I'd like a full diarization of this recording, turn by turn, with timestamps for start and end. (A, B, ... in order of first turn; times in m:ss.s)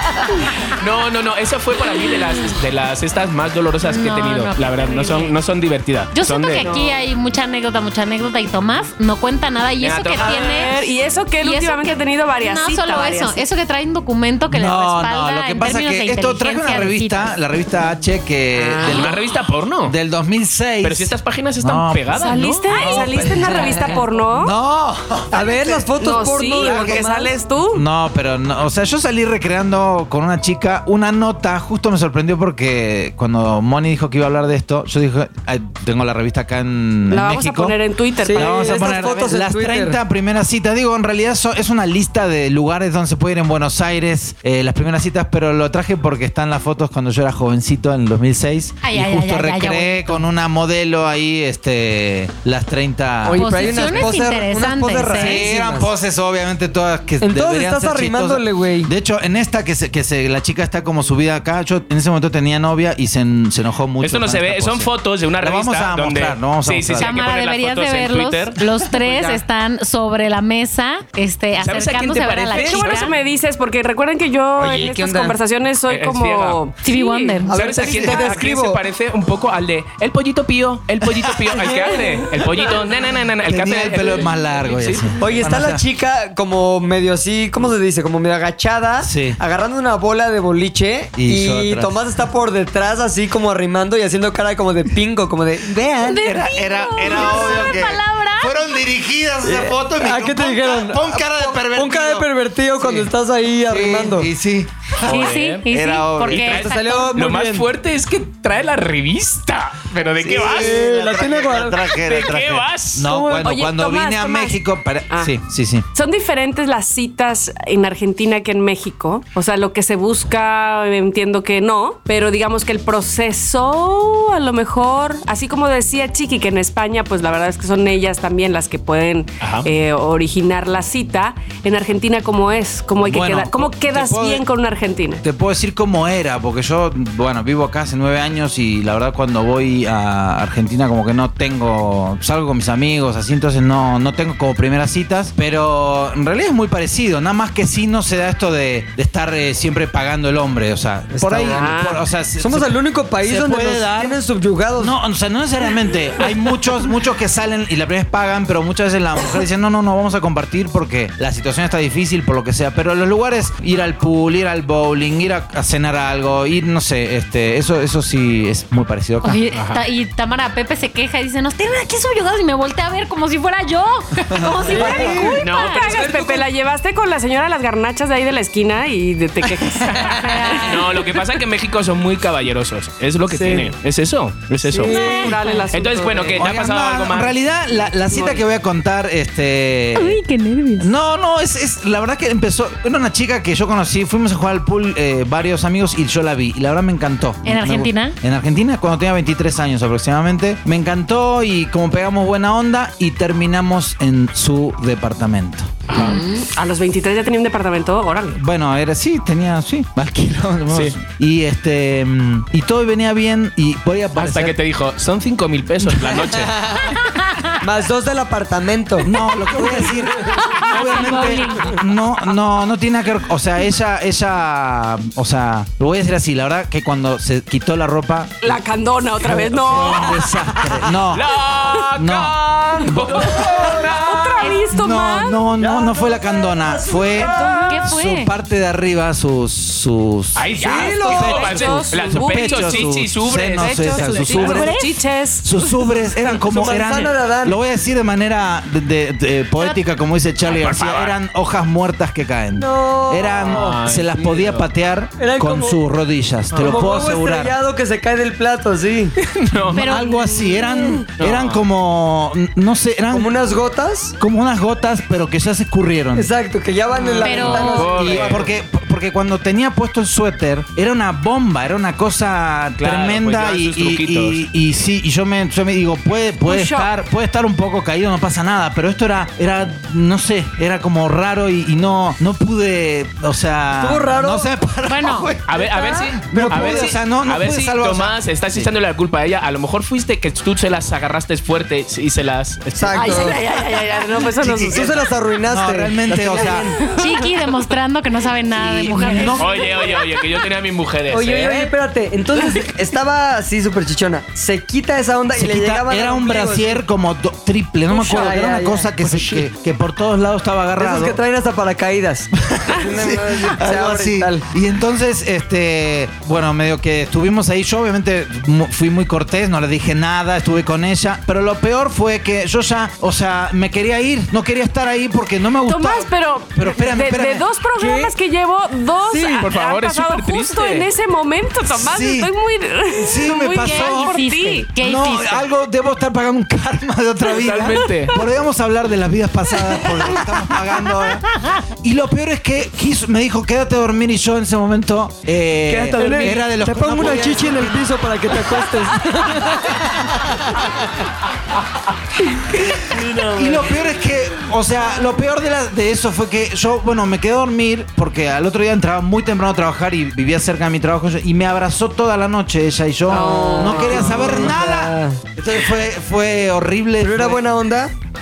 0:00.4-0:06.7 A
0:03.8-0:05.4 B
0:06.1-0:17.3 B
0:06.6-0:07.0 C
0:09.8-0:10.8 A
0:10.2-0:13.4 C
0:14.5-0:19.2 D
0:18.6-0:19.1 C
0:18.8-0:20.0 A
0:19.8-0:22.1 D
0:20.8-0:22.9 A
0:22.1-0:24.6 C
0:22.7-0:25.9 D
0:23.4-0:24.0 E
0:25.3-0:27.1 E
0:26.0-0:27.8 C
0:26.6-0:37.8 D
0:37.1-0:39.3 C
0:38.2-0:40.0 E
0:38.3-0:54.1 D
0:48.8-0:50.2 B
0:53.2-0:55.9 E
0:53.3-0:55.5 B
0:55.1-1:07.2 D
0:57.2-0:58.9 E
1:04.0-1:08.7 A
1:07.0-1:13.1 B
1:09.0-1:09.4 D
1:11.6-1:13.1 A
1:12.5-1:17.5 C
1:14.6-1:15.4 E
1:15.9-1:16.6 A
1:16.8-1:17.7 B
1:17.5-1:18.8 E
1:17.6-1:25.2 A
1:17.8-1:18.3 D
1:21.0-1:22.0 D
1:23.4-1:25.8 D
1:25.2-1:35.8 E
1:29.0-1:29.4 D
1:31.2-1:32.0 D
1:35.6-1:43.1 D
1:36.0-1:38.6 B
1:37.2-1:37.5 C
1:39.4-1:44.3 E
1:43.7-1:46.6 D
1:45.0-1:45.7 A
1:45.0-1:47.2 B
1:46.3-1:50.8 A
1:46.5-1:47.7 E
1:50.2-1:51.8 E
1:50.3-1:55.8 D
1:52.0-1:53.1 A
1:53.0-1:55.3 C
1:55.9-2:15.2 C
2:09.4-2:09.7 A
2:13.0-2:14.4 D
2:15.2-2:34.2 D
2:31.1-2:31.7 E
2:31.4-2:32.1 C
2:32.4-2:35.0 E
2:34.8-2:49.4 D
2:49.2-2:56.1 B
2:49.5-2:49.8 A
2:54.3-2:55.4 D
2:54.6-2:56.5 E
2:55.4-2:56.0 A
2:55.5-3:01.2 C
2:59.8-3:07.4 A
3:00.0-3:01.0 B
3:03.4-3:03.7 C
3:04.8-3:06.5 C
3:04.8-3:05.7 B
3:06.4-3:10.2 D
3:08.1-3:08.4 C
3:10.0-3:10.9 B
3:10.8-3:25.7 D
3:17.5-3:18.2 B
3:25.9-3:26.2 A
3:25.9-3:28.4 C
3:28.3-3:34.6 D
3:30.7-3:31.0 A
3:34.2-3:36.6 A
3:36.8-3:37.6 B
3:37.6-3:39.1 E
3:39.0-3:48.6 D
3:39.7-3:40.0 E
3:40.4-3:41.8 B
3:48.4-3:50.4 C
3:49.2-3:51.3 D
3:49.7-3:54.5 A
3:51.5-3:51.9 C
3:52.0-3:54.0 D
3:53.8-3:55.4 C
3:54.4-3:54.7 B
3:54.7-4:04.8 D
3:55.6-3:57.8 E
3:57.2-3:57.8 C
3:57.2-3:58.3 B
4:00.4-4:04.5 A
4:00.6-4:01.9 E
4:01.0-4:02.9 C
4:03.5-4:05.9 C
4:04.4-4:05.0 B
4:05.4-4:17.5 D
4:06.3-4:07.6 E
4:10.4-4:11.2 A
4:12.6-4:13.6 E
4:13.4-4:14.7 A
4:15.2-4:15.8 E
4:16.5-4:16.8 A
4:16.6-4:19.2 E
4:19.2-4:19.8 A
4:19.7-4:23.3 D
4:19.7-4:20.3 B
4:21.2-4:21.6 A
4:23.1-4:24.2 E
4:24.2-4:26.3 D
4:26.1-4:28.5 E
4:27.0-4:27.3 C
4:27.0-4:28.5 A
4:27.2-4:28.0 B
4:27.9-4:48.7 D
4:32.8-4:34.4 A
4:36.4-4:36.9 C
4:43.8-4:44.5 E
4:44.9-4:45.4 B
4:45.5-4:53.3 A
4:45.5-4:47.0 E
4:52.8-4:53.4 E
4:52.9-4:55.0 C
4:54.4-4:54.8 D
4:54.4-4:56.9 E
4:55.5-4:56.8 D
4:56.3-4:57.3 C
4:56.9-4:59.5 B
4:58.6-4:59.5 D
4:58.9-5:00.2 C
4:59.4-5:01.7 A
5:01.1-5:06.8 E
5:05.4-5:11.2 D
5:07.9-5:08.9 E
5:09.0-5:09.5 A
5:10.8-5:14.4 E
5:12.4-5:27.4 D
5:25.7-5:34.7 C
5:27.8-5:28.1 E
5:29.1-5:29.5 E
5:29.4-5:30.9 A
5:31.7-5:32.3 D
5:32.9-5:34.2 D
5:33.5-5:35.5 B
5:34.8-5:50.8 D
5:37.3-5:38.2 A
5:45.7-5:50.0 E
5:45.9-5:46.4 A
5:52.7-5:53.6 E
5:53.0-6:07.4 D
6:03.1-6:04.6 C
6:03.1-6:05.2 E
6:07.0-6:07.9 E